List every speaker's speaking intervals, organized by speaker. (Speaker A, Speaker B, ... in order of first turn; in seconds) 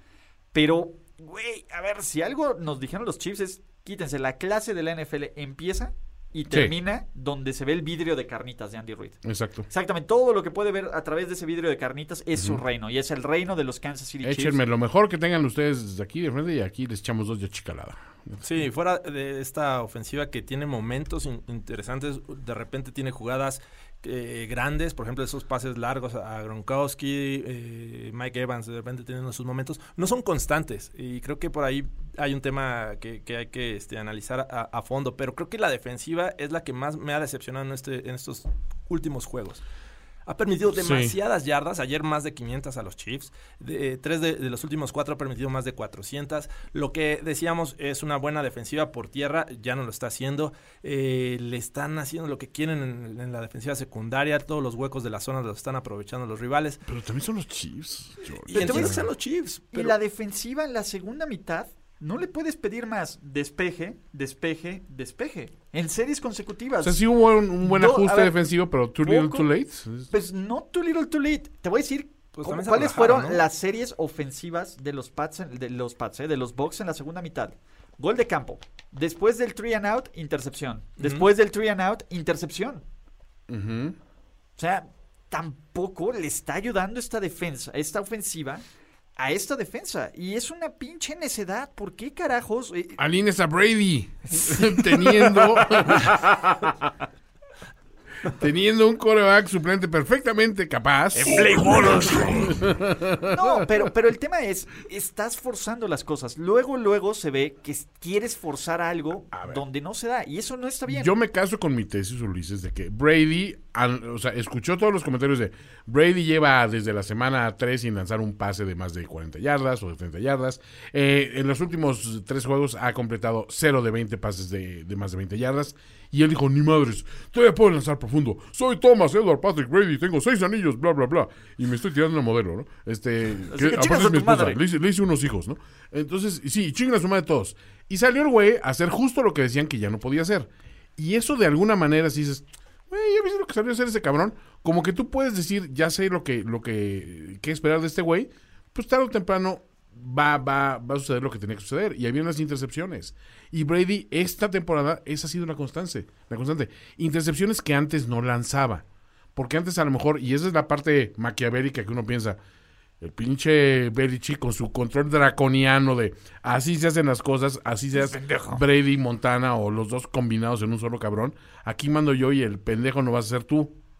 Speaker A: 0.5-9.2, 9.7-14.6, 58.5-59.0, 59.7-67.0, 67.6-68.4, 69.0-69.5, 70.1-82.8, 84.6-88.6, 89.2-93.0, 94.3-96.1, 101.1-102.5, 103.2-111.1, 133.5-134.6, 167.9-168.6
Speaker B: 9.2-9.7, 12.3-12.6, 14.2-18.4, 40.8-41.1, 56.9-59.0, 66.8-70.1, 83.5-84.0, 93.0-96.9, 98.2-103.7, 109.3-109.6, 110.9-158.8, 159.3-162.4, 163.0-173.7
Speaker C: 18.4-39.6, 40.2-56.8, 58.5-60.0, 72.3-73.4, 81.0-81.3